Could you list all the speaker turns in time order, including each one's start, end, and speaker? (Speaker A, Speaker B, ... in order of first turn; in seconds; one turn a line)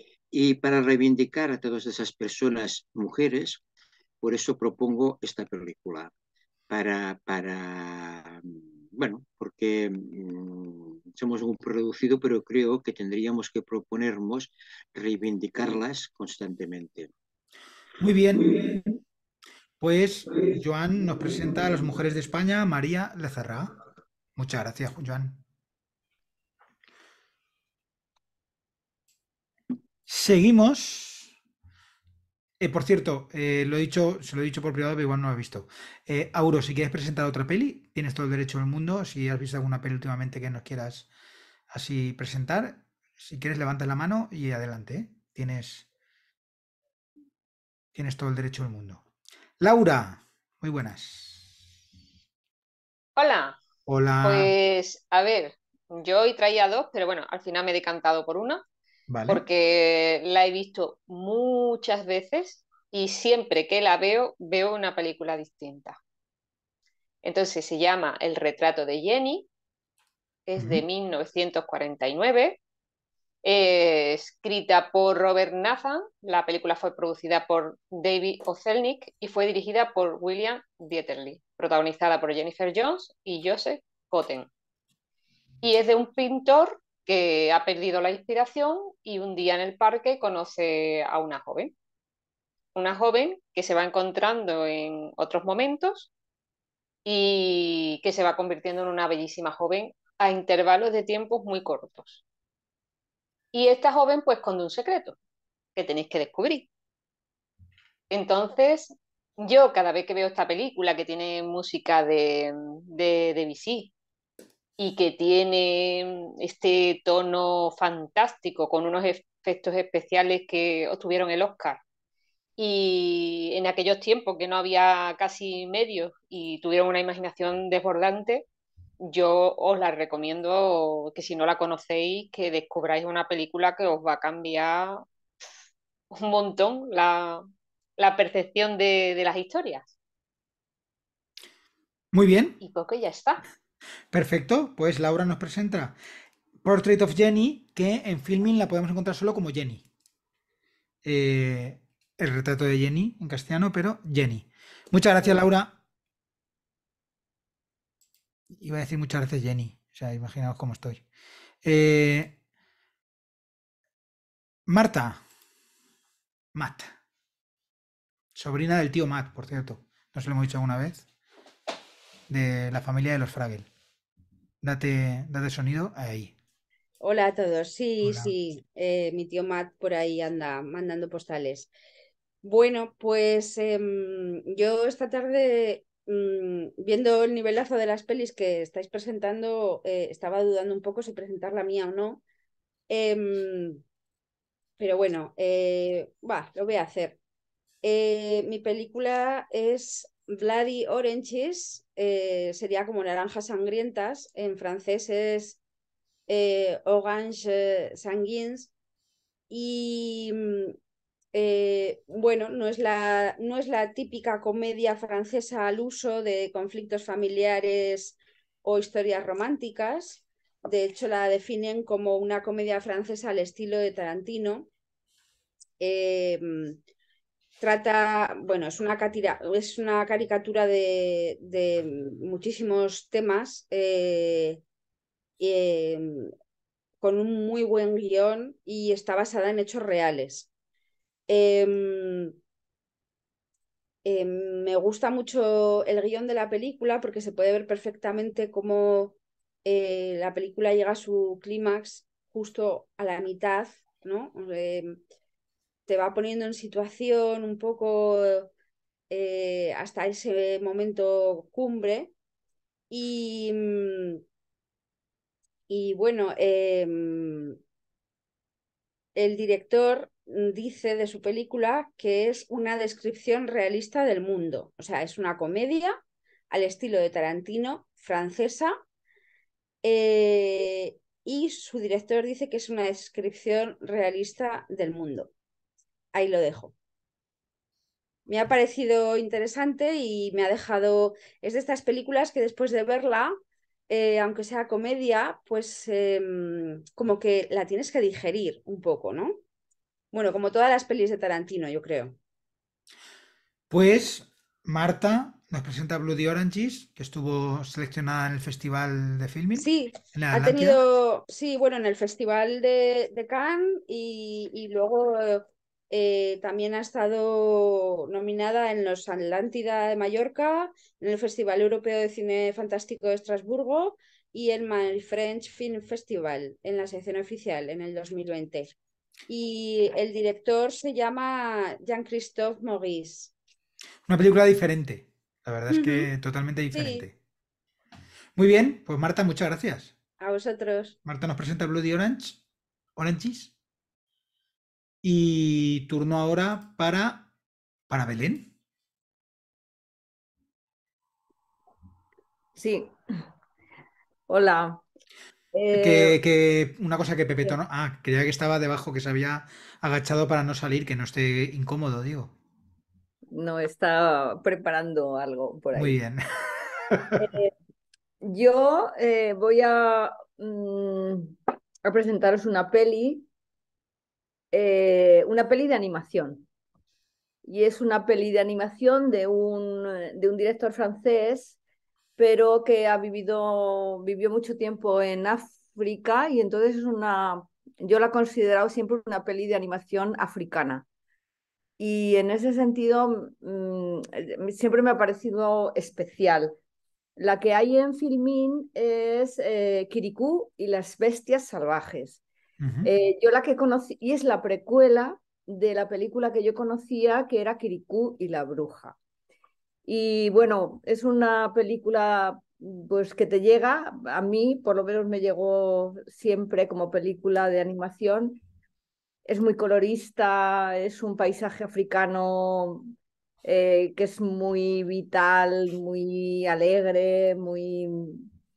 Speaker A: 0.3-3.6
Speaker A: 4.2-6.1
Speaker A: 6.7-17.1
Speaker B: 18.0-18.9
Speaker B: 19.8-23.7
Speaker B: 24.3-25.4
Speaker B: 30.1-31.3
Speaker B: 32.6-41.1
Speaker B: 41.7-45.9
Speaker B: 47.9-49.0
Speaker B: 49.6-51.6
Speaker C: 53.1-53.6
Speaker B: 53.9-54.5
Speaker C: 54.2-58.6
Speaker B: 59.1-59.4
Speaker C: 59.3-66.0
Speaker C: 67.2-69.5
Speaker C: 70.5-72.6
Speaker B: 70.6-70.8
Speaker C: 73.4-84.5
Speaker C: 85.6-91.7
Speaker C: 92.7-96.1
Speaker C: 97.0-102.2
Speaker C: 103.5-105.2
Speaker C: 105.8-106.7
Speaker C: 108.1-113.9
Speaker C: 114.8-121.8
Speaker C: 122.6-128.4
Speaker C: 129.0-135.0
Speaker C: 136.1-137.4
Speaker C: 138.0-139.9
Speaker B: 142.1-142.6
Speaker C: 142.6-143.4
Speaker B: 144.1-146.0
Speaker B: 146.6-149.8
Speaker B: 151.0-155.8
Speaker B: 158.5-161.0
Speaker B: 161.6-162.3
Speaker B: 164.7-165.2
Speaker B: 166.5-166.9
Speaker B: 168.3-171.1
Speaker B: 172.3-173.7
Speaker B: 174.6-176.3
Speaker D: 177.0-181.7
Speaker B: 178.0-178.3
Speaker D: 182.4-192.2
Speaker D: 192.9-193.8
Speaker D: 194.8-197.2
Speaker D: 197.8-205.6
Speaker D: 206.3-208.7
Speaker D: 209.5-210.7
Speaker D: 211.3-224.7
Speaker D: 225.8-226.8
Speaker D: 227.6-234.6
Speaker D: 235.4-236.3
Speaker D: 237.0-240.5
Speaker D: 241.3-242.3
Speaker D: 244.0-255.0
Speaker D: 255.9-258.5
Speaker D: 259.1-262.1
Speaker D: 262.9-264.2
Speaker D: 265.7-267.6
Speaker D: 269.1-276.0
Speaker D: 276.5-278.7
Speaker D: 279.8-285.3
Speaker D: 286.1-286.7
Speaker D: 288.3-293.3
Speaker D: 293.9-299.4
Speaker D: 300.1-302.1
Speaker B: 303.7-310.8
Speaker D: 309.6-328.7
Speaker D: 329.3-333.3
Speaker B: 334.1-337.1
Speaker D: 335.7-336.1
Speaker D: 336.7-337.1
Speaker B: 338.3-339.9
Speaker D: 340.2-341.0
Speaker B: 341.0-342.4
Speaker B: 342.9-343.5
Speaker B: 345.0-347.3
Speaker B: 347.9-348.5
Speaker E: 352.6-353.0
Speaker E: 354.3-354.8
Speaker E: 355.5-356.2
Speaker B: 355.7-362.3
Speaker E: 363.3-366.0
Speaker B: 365.7-367.3
Speaker E: 367.1-367.5
Speaker E: 368.2-373.3
Speaker E: 374.5-376.5
Speaker E: 377.4-381.6
Speaker E: 382.2-390.9
Speaker E: 391.8-396.6
Speaker E: 397.2-402.2
Speaker B: 402.6-402.9
Speaker E: 402.8-409.0
Speaker E: 409.9-418.4
Speaker E: 419.2-422.9
Speaker E: 423.4-428.3